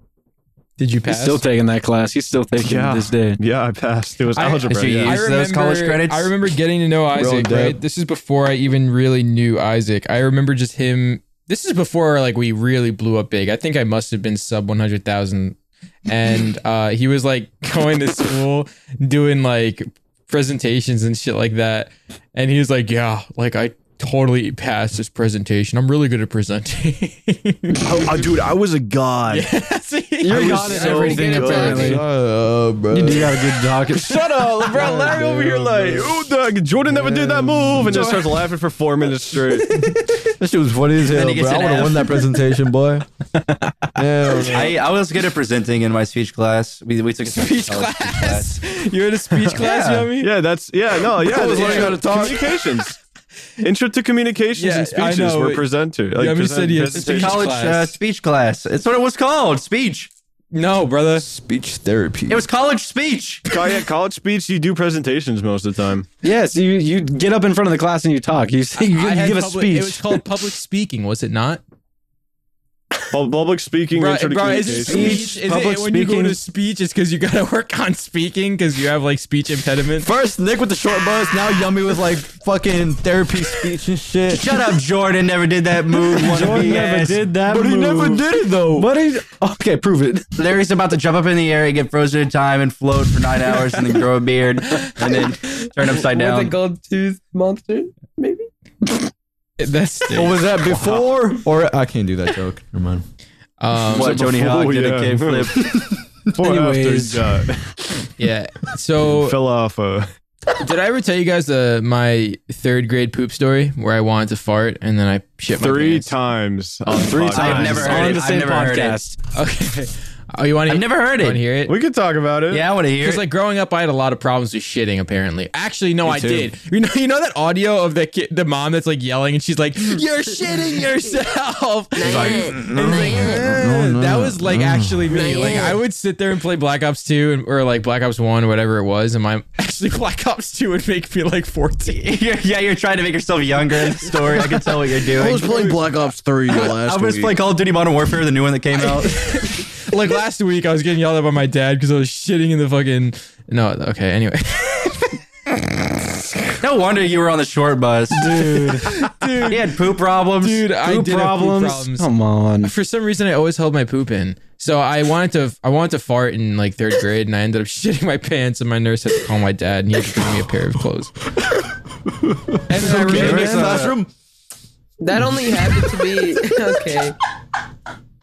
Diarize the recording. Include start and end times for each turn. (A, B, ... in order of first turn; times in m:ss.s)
0:00.8-0:01.4 A
0:01.0-0:03.4 B
0:02.6-0:05.2 C
0:04.3-0:28.2 A
0:04.7-0:06.3 D
0:07.1-0:07.8 E
0:27.8-0:29.5 C
0:29.3-0:31.9 A
0:30.2-0:32.0 B
0:30.3-0:31.9 C
0:30.3-0:32.0 F
0:31.5-0:33.7 E
0:32.9-0:35.5 B
0:34.0-0:39.9 C
0:34.7-0:36.2 E
0:36.9-0:38.2 E
0:37.8-0:38.2 B
0:39.8-0:43.0 E
0:41.0-0:42.2 D
0:44.0-0:44.8 E
0:44.5-0:48.6 D
0:47.3-0:50.3 A
0:49.6-0:50.0 B
0:50.2-0:53.0 C
0:51.2-0:52.5 E
0:53.6-0:57.4 C
0:54.6-0:55.6 A
0:56.2-0:57.9 A
0:56.9-1:00.1 D
1:00.5-1:01.2 A
1:01.2-1:02.4 E
1:02.3-1:03.4 D
1:03.5-1:06.0 C
1:06.2-1:10.2 B
1:08.8-1:11.6 A
1:13.1-1:15.3 C
1:13.9-1:20.1 A
1:14.5-1:16.4 B
1:20.0-1:24.5 E
1:24.3-1:27.3 D
1:26.1-1:30.3 B
1:26.4-1:26.7 E
1:27.4-1:28.9 E
1:30.4-1:36.5 D
1:35.8-1:38.5 F
1:39.6-1:40.8 A
1:40.1-1:43.0 E
1:43.6-1:44.3 A
1:43.9-1:45.8 D
1:43.9-1:45.7 C
1:46.3-1:47.4 B
1:46.4-1:47.7 C
1:48.2-1:49.4 A
1:49.1-1:50.1 C
1:50.6-1:56.1 A
1:55.6-1:58.2 C
1:56.9-1:59.2 B
1:57.3-1:59.0 D
1:59.3-2:01.7 A
2:00.7-2:01.4 D
2:01.7-2:02.6 C
2:02.5-2:03.3 D
2:03.0-2:22.1 A
2:06.0-2:06.5 E
2:12.0-2:13.4 F
2:12.0-2:15.6 E
2:15.1-2:15.8 F
2:21.9-2:25.7 D
2:25.1-2:27.4 C
2:26.5-2:29.3 D
2:28.8-2:35.2 A
2:36.6-2:38.3 D
2:38.1-2:38.9 B
2:38.8-2:39.7 A
2:39.3-2:41.0 D
2:40.4-2:42.1 A
2:40.9-2:42.7 B
2:42.6-2:51.1 A
2:51.4-2:54.1 E
2:52.7-2:53.9 A
2:52.8-2:53.9 C
2:55.0-2:57.2 F